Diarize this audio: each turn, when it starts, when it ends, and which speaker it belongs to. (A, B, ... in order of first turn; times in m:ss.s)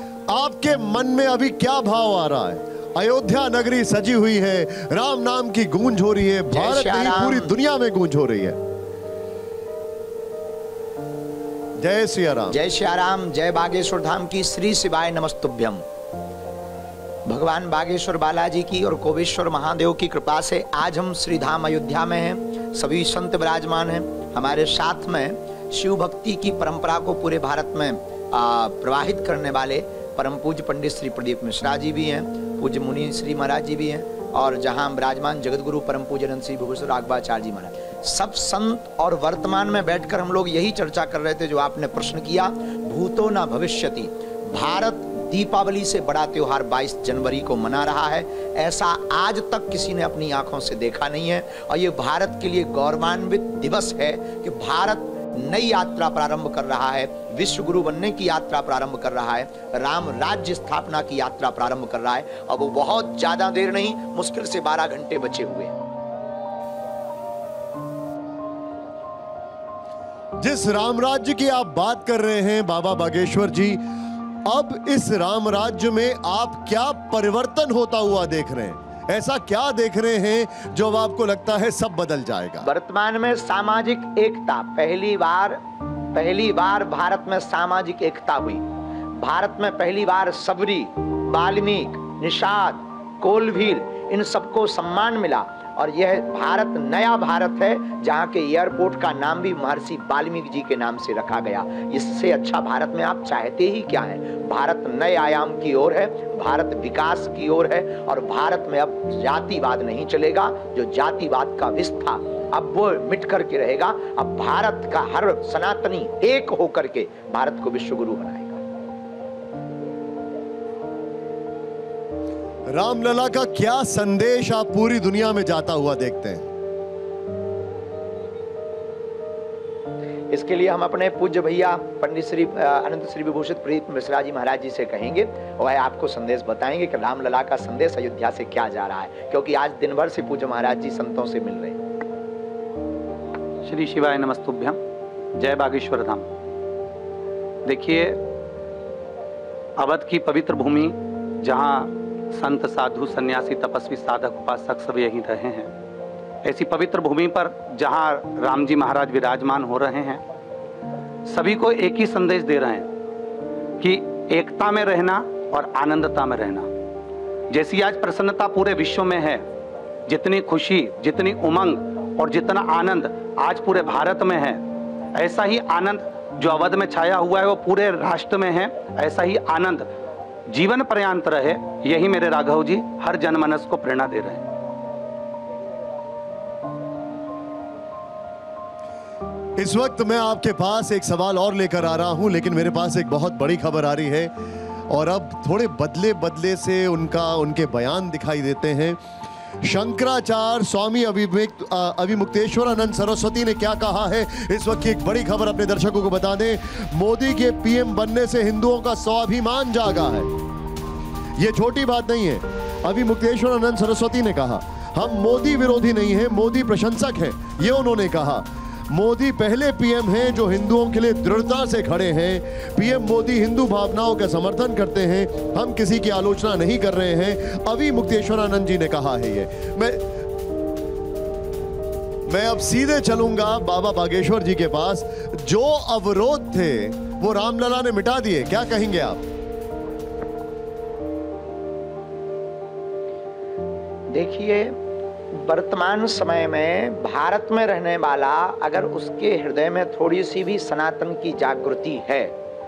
0:00.3-0:08.6 A
0:06.5-0:07.5 B
0:11.8-0:12.6 A
0:12.5-0:15.8 B
0:17.2-1:05.7 B
1:10.4-1:13.8 A
1:14.5-1:22.7 A
1:22.6-1:25.6 B
1:26.1-1:28.6 B
1:29.1-1:58.6 B
2:02.7-2:06.5 A
2:10.3-2:21.8 B
2:23.6-2:24.8 C
2:25.4-2:26.2 C
2:27.7-2:28.2 C
2:29.8-2:35.7 C
2:36.4-2:40.2 C
2:41.3-2:42.9 C
2:43.8-2:46.7 C
2:47.5-2:49.4 C
2:50.1-2:54.6 C
2:55.2-2:59.9 C
3:00.5-3:04.4 C
3:09.6-3:14.3 A
3:14.9-3:19.0 A
3:19.6-3:30.3 A
3:31.4-3:50.0 A
3:52.3-3:59.2 A
4:04.1-4:04.8 B
4:05.3-4:12.3 B